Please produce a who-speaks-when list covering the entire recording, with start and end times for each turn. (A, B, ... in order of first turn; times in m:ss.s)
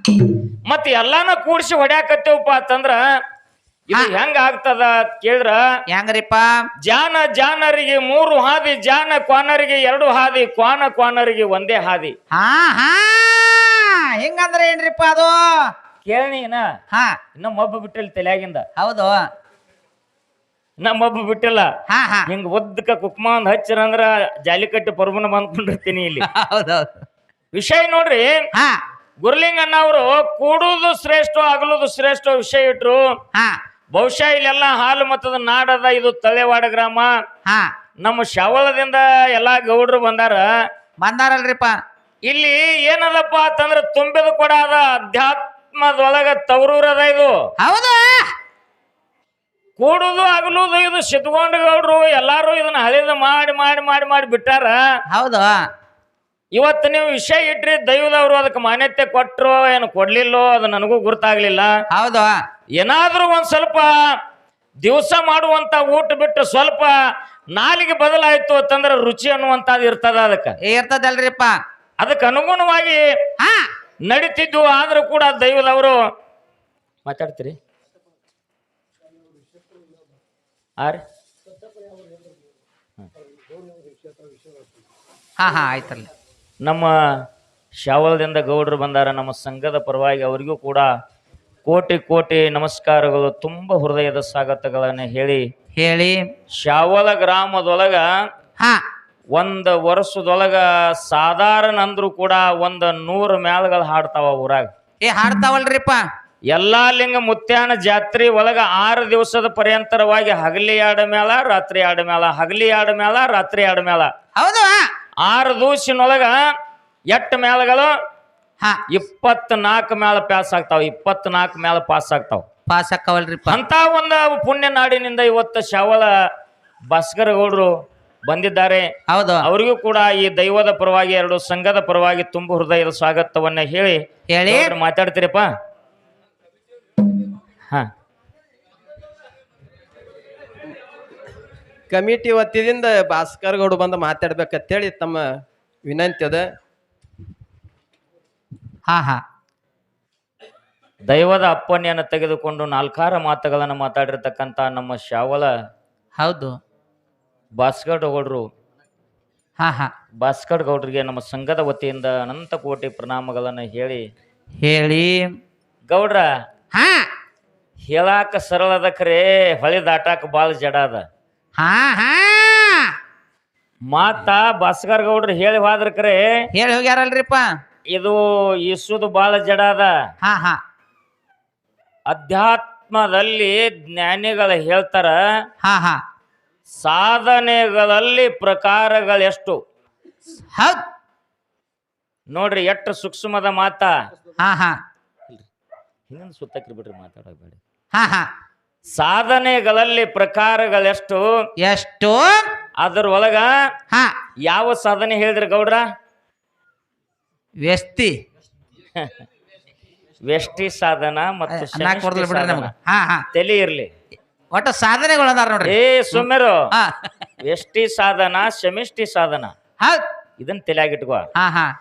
0:00.7-0:03.0 A
0:03.9-0:05.6 A
0:05.9-0:06.5 B
0:06.8-0:12.1 A
0:12.3-0:15.7 B
0:16.0-0:16.6 A
0:16.9-0:17.2 B
0:17.4-0:18.6 A
0:18.8-0:19.2 B
0:20.8-0:21.6 A
0:21.9-0:22.3 B
0:22.3-0:26.2 A
0:26.2-0:27.0 B
0:27.5-0:28.3 A
0:28.5-0:28.8 B
0:29.2-0:33.0 A
0:33.9-0:37.1 A
0:37.4-0:37.7 B
0:38.0-0:40.4 A
0:41.0-0:41.7 B
0:42.3-0:47.3 A
0:47.6-0:48.3 B
0:49.8-0:54.8 A
0:55.1-0:55.6 B
0:56.5-1:01.7 A
1:01.9-1:02.3 B
1:02.8-1:03.9 A
1:04.8-1:06.9 A
1:07.5-1:10.6 A
1:10.6-1:11.5 B
1:12.0-1:13.0 A
1:13.4-1:13.7 B
1:14.0-1:16.0 A
1:17.0-1:17.6 A
1:25.4-1:26.1 B
1:26.6-1:26.9 A
1:27.8-1:30.9 A
1:31.6-1:35.4 A
1:35.8-1:36.3 B
1:36.5-1:38.0 A
1:39.3-1:44.7 A
1:45.0-1:46.0 B
1:46.5-1:54.1 A
1:54.4-1:54.8 B
1:55.2-1:56.3 A
1:57.1-1:57.9 A
1:58.9-2:02.4 A
2:02.7-2:03.6 B
2:03.5-2:06.1 A
2:06.9-2:07.7 A
2:08.3-2:08.9 A
2:09.1-2:09.4 B
2:09.4-2:15.5 A
2:14.3-2:14.7 B
2:21.9-2:26.5 C
2:28.9-2:29.2 B
2:31.1-2:35.5 A
2:36.2-2:36.5 B
2:37.6-2:38.4 A
2:39.6-2:39.9 B
2:40.2-2:44.0 A
2:44.6-2:45.3 B
2:45.9-2:46.2 A
2:46.7-2:47.1 B
2:47.9-2:51.0 A
2:51.6-2:52.9 B
2:53.9-2:56.2 A
2:56.5-2:57.5 B
2:57.9-2:59.9 A
3:00.2-3:00.6 B
3:02.1-3:05.2 A
3:05.6-3:06.0 B
3:06.8-3:09.6 A
3:10.5-3:10.8 B
3:12.3-3:13.9 A
3:14.4-3:14.8 B
3:16.1-3:17.6 A
3:17.9-3:18.3 B
3:18.9-3:21.2 A
3:21.6-3:22.4 B
3:22.8-3:23.5 A
3:24.4-3:25.8 A
3:27.6-3:28.1 B
3:30.2-3:32.7 A
3:31.5-3:33.2 B
3:33.3-3:33.9 A
3:34.5-3:37.1 B
3:35.6-3:36.5 A
3:37.4-3:39.5 A
3:40.4-3:41.3 A
3:41.4-3:41.7 B